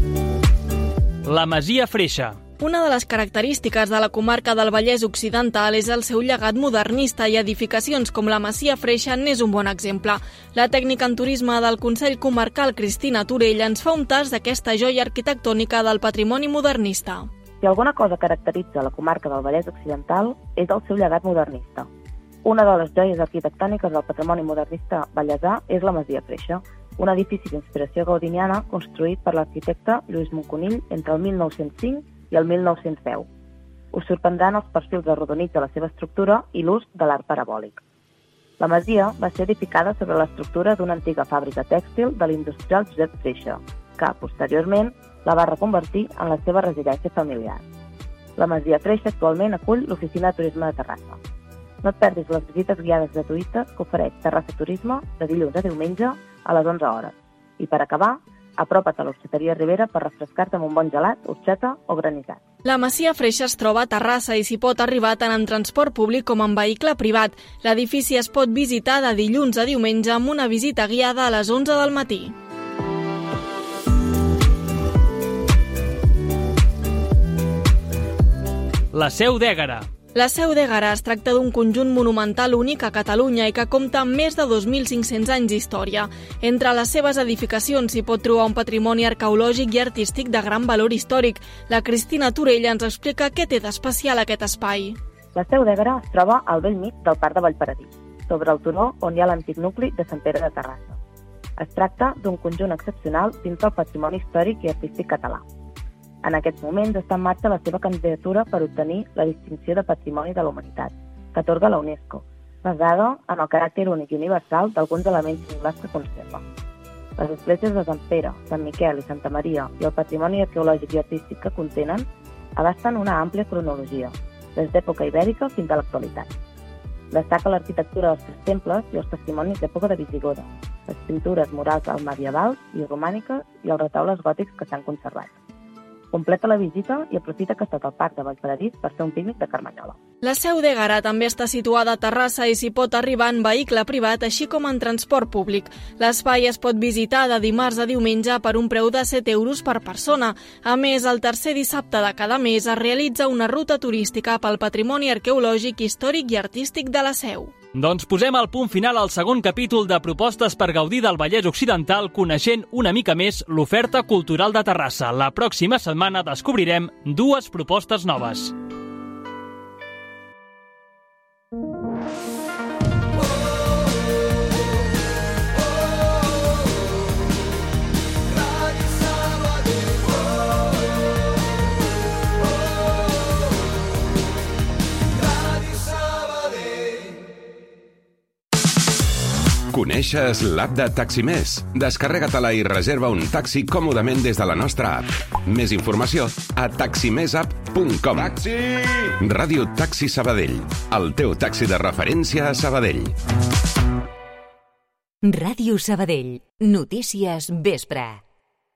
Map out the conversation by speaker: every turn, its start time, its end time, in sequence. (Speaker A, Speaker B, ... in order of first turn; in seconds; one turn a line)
Speaker A: 1.2-2.4
Speaker B: 2.6-17.3
Speaker C: 17.6-21.9
Speaker C: 22.4-33.3
Speaker C: 33.9-37.8
Speaker C: 38.6-47.6
Speaker C: 48.4-51.2
Speaker C: 51.8-62.4
Speaker B: 62.6-72.3
Speaker A: 78.9-79.9
Speaker B: 80.1-95.0
Speaker C: 95.3-101.0
Speaker C: 101.6-105.4
Speaker C: 106.2-116.4
Speaker C: 117.2-126.3
Speaker C: 127.1-135.3
Speaker C: 136.1-140.0
Speaker B: 140.2-157.5
Speaker A: 157.7-168.5
Speaker D: 189.7-198.4
Speaker D: 199.2-203.1
Speaker E: 205.2-208.2